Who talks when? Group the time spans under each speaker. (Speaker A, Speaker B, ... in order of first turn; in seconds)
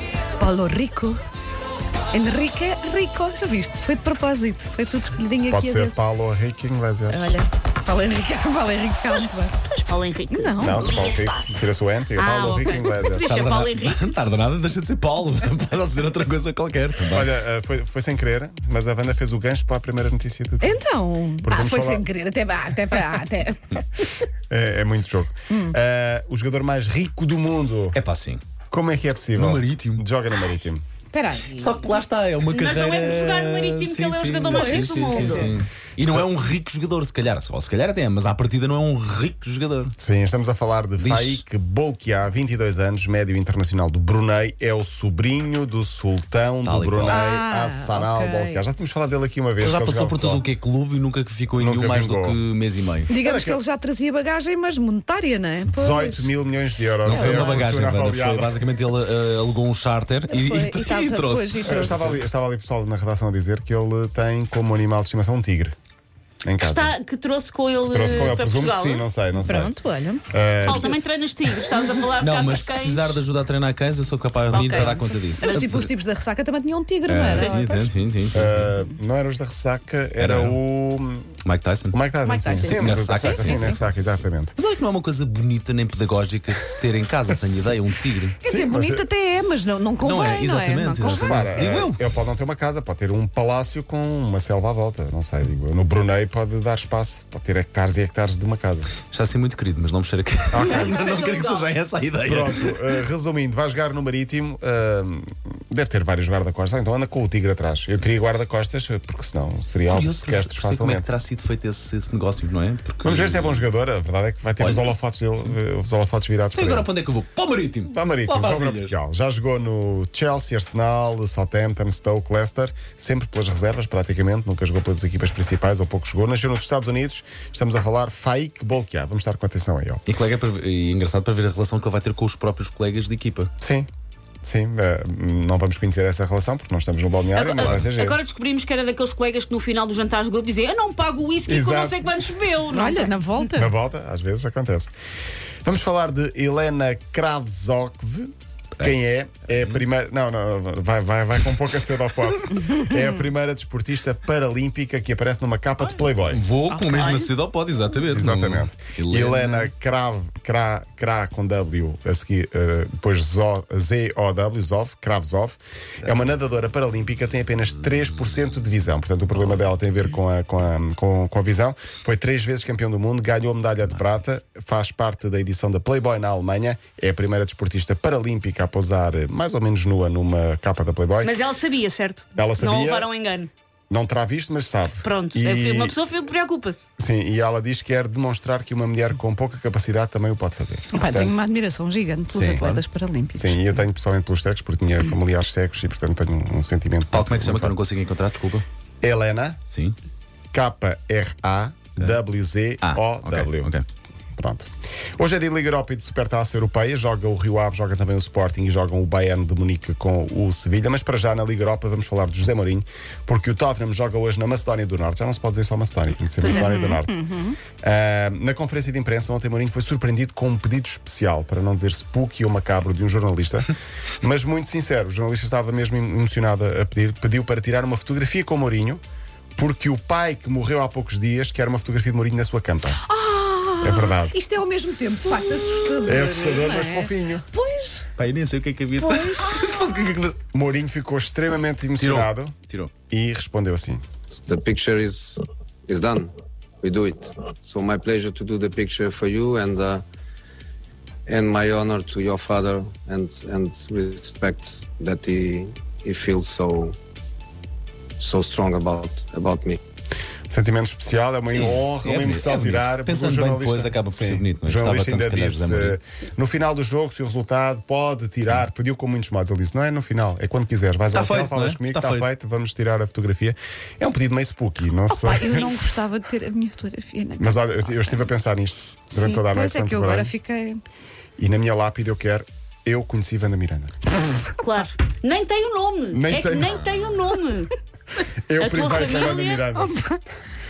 Speaker A: 0.4-1.2, 2.1-5.9, 7.1-9.5, 10.3-11.0, 20.6-23.7, 31.1-31.7, 34.5-35.6, 47.1-48.6, 53.1-56.3, 57.1-57.6, 60.3-62.2, 69.4-70.2, 74.7-77.9, 82.2-83.8, 88.4-91.8, 142.7-143.7, 156.7-157.2, 190.9-193.6, 216.4-217.6, 233.1-238.0, 275.1-278.3, 279.1-280.8, 289.8-290.2
Speaker B: 5.5-7.4, 10.6-13.3, 17.1-20.8, 21.4-22.1, 24.5-28.0, 28.7-30.8, 40.0-50.4, 51.6-52.4, 53.2-53.6, 55.7-58.5, 61.6-65.7, 66.4-66.9, 67.8-69.7, 70.3-71.0, 78.3-81.3, 81.9-84.5, 88.4-89.0, 91.0-98.9, 100.5-100.9, 102.2-111.1, 113.0-116.9, 117.9-130.0, 133.6-133.9, 134.4-138.2, 141.5-142.1, 143.5-144.9, 145.6-156.4, 158.1-181.4, 182.3-183.1, 183.9-185.9, 187.0-191.3, 192.3-192.8, 193.3-197.7, 199.0-199.6, 200.5-203.7, 204.3-217.2, 217.8-223.7, 224.2-229.0, 229.6-233.0, 233.8-234.3, 236.0-237.4, 240.5-242.6, 243.1-244.0, 260.5-275.7, 277.4-280.3, 281.4-283.9, 286.1-286.8, 288.5-290.0
Speaker C: 9.9-11.4, 12.2-14.0, 32.5-35.5, 66.6-69.0, 70.6-73.2, 74.5-75.7, 77.3-77.9, 100.6-101.7, 137.3-143.2, 156.9-157.3, 181.2-183.5, 185.0-186.8, 239.0-239.5, 284.6-287.7, 288.6-289.6
Speaker D: 13.1-17.3, 27.9-28.4, 29.4-30.0, 31.5-39.9, 41.0-41.4, 46.6-47.2, 49.6-53.1, 57.0-62.2, 72.2-75.9, 77.1-78.7, 80.2-80.6, 81.5-82.0, 82.7-83.7, 84.6-88.3, 90.0-92.0, 99.0-102.8, 109.9-113.6, 114.6-115.5, 116.5-118.9, 130.1-133.5, 137.6-137.9, 149.5-149.8, 156.3-159.6, 197.1-198.6, 199.7-199.9, 202.8-203.8, 238.2-240.4, 242.0-242.9, 261.5-266.0, 271.1-272.2
Speaker E: 244.4-250.0, 251.2-256.9, 258.2-259.8